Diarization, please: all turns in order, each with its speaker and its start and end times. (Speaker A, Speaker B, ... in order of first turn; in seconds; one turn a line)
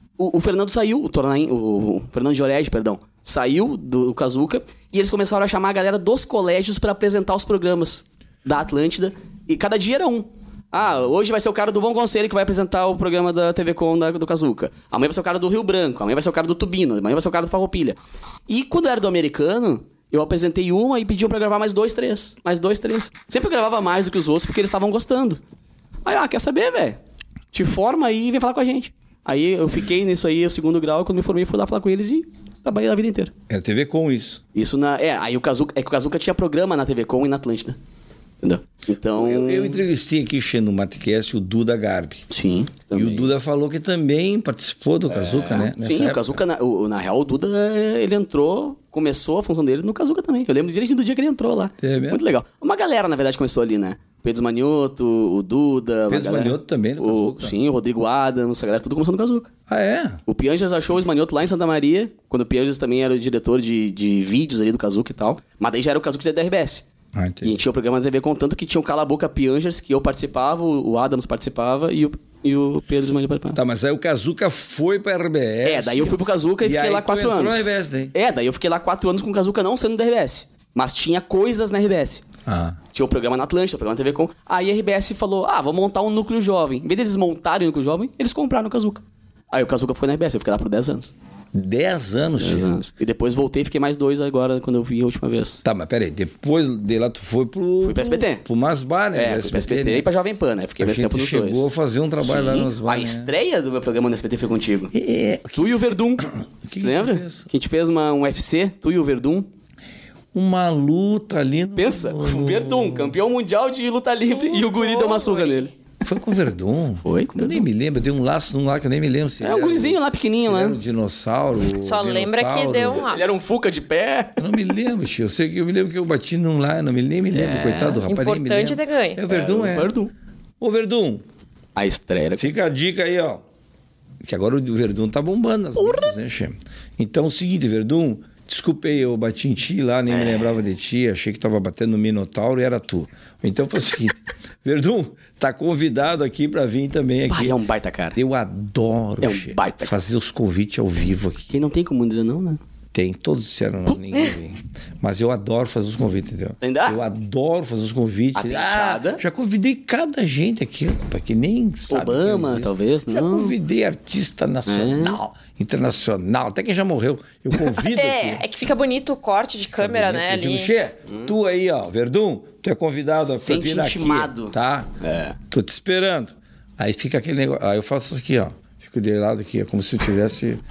Speaker A: 0.2-18.0
Speaker A: 18.5-25.4
Speaker A: 26.1-27.0
Speaker A: 27.5-33.3
Speaker B: 33.5-34.4
Speaker A: 34.5-37.8
Speaker A: 38.4-39.8
Speaker B: 39.1-42.2
Speaker A: 42.3-43.3
Speaker B: 42.9-46.4
Speaker A: 45.1-59.5
Speaker B: 51.8-52.2
Speaker B: 56.1-57.6
Speaker B: 59.7-60.2
Speaker A: 60.3-66.9
Speaker B: 67.1-67.6
Speaker A: 67.4-73.6
Speaker B: 73.5-78.1
Speaker A: 75.6-82.2
Speaker B: 82.5-82.8
Speaker A: 82.9-91.1
Speaker B: 91.5-92.8
Speaker A: 92.4-95.6
Speaker B: 95.6-100.1
Speaker A: 97.8-98.4
Speaker A: 99.1-101.7
Speaker B: 100.8-103.3
Speaker A: 102.2-104.9
Speaker B: 104.9-107.5
Speaker A: 105.6-106.3
Speaker A: 106.8-109.5
Speaker B: 110.3-113.2
Speaker A: 111.8-115.7
Speaker C: 114.3-115.7
Speaker B: 116.0-123.1
Speaker A: 117.0-117.7
Speaker A: 119.4-120.8
Speaker C: 121.8-123.3
Speaker A: 122.9-124.4
Speaker B: 124.4-129.9
Speaker A: 127.3-128.0
Speaker C: 128.0-129.2
Speaker A: 129.3-130.1
Speaker B: 130.6-131.2
Speaker A: 131.8-132.5
Speaker B: 132.4-133.4
Speaker B: 134.2-147.6
Speaker A: 135.8-136.1
Speaker A: 140.1-140.5
Speaker A: 147.3-148.2
Speaker B: 148.2-151.5
Speaker A: 149.2-149.9
Speaker A: 151.5-152.6
Speaker B: 152.9-168.4
Speaker A: 156.6-157.0
Speaker A: 158.3-159.2
Speaker A: 161.9-163.6
Speaker A: 164.7-165.2
Speaker C: 167.9-170.7
Speaker B: 169.7-174.9
Speaker A: 173.2-175.4
Speaker B: 175.5-180.6